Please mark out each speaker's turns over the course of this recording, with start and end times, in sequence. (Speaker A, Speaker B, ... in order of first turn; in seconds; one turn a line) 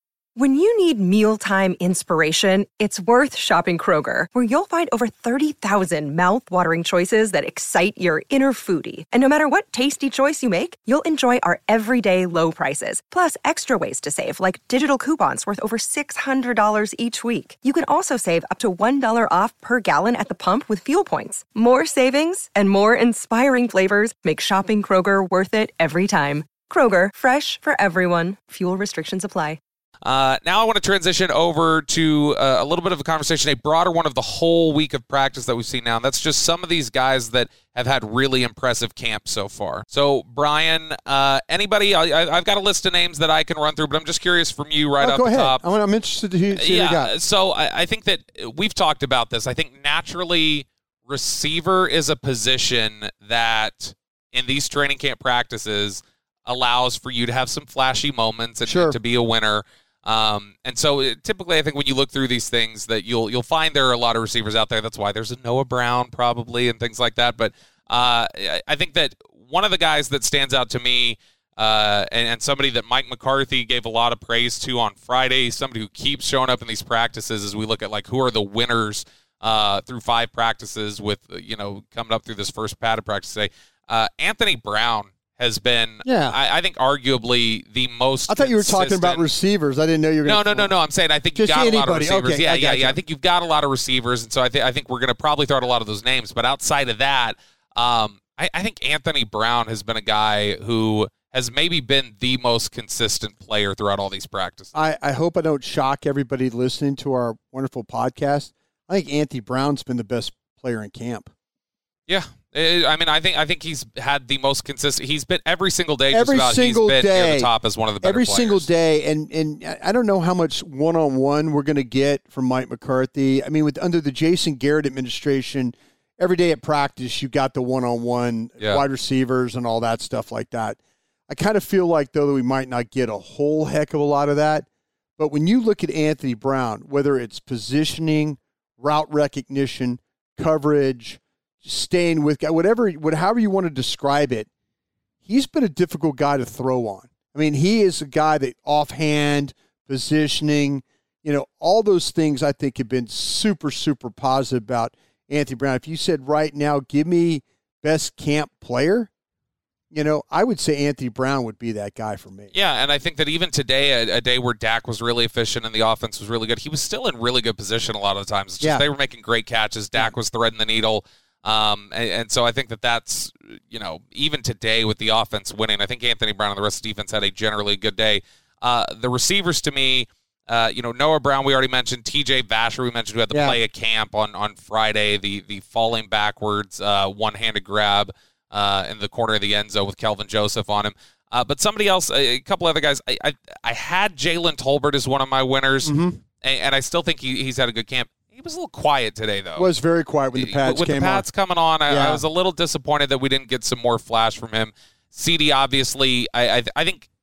Speaker A: 0.3-29.6
Speaker B: 30.0-45.6
Speaker C: 45.0-47.1
Speaker B: 46.5-89.2
Speaker C: 58.6-59.0
Speaker C: 86.0-86.4
Speaker C: 88.3-90.7
Speaker B: 90.2-104.7
Speaker C: 91.3-93.0
Speaker C: 104.7-111.3
Speaker B: 112.1-118.7
Speaker C: 116.1-130.8
Speaker C: 131.3-144.5
Speaker C: 145.2-159.1
Speaker C: 159.9-162.5
Speaker B: 162.5-199.7
Speaker C: 183.3-183.6
Speaker C: 195.8-196.2
Speaker C: 199.6-201.3
Speaker B: 200.3-207.1
Speaker C: 201.9-202.2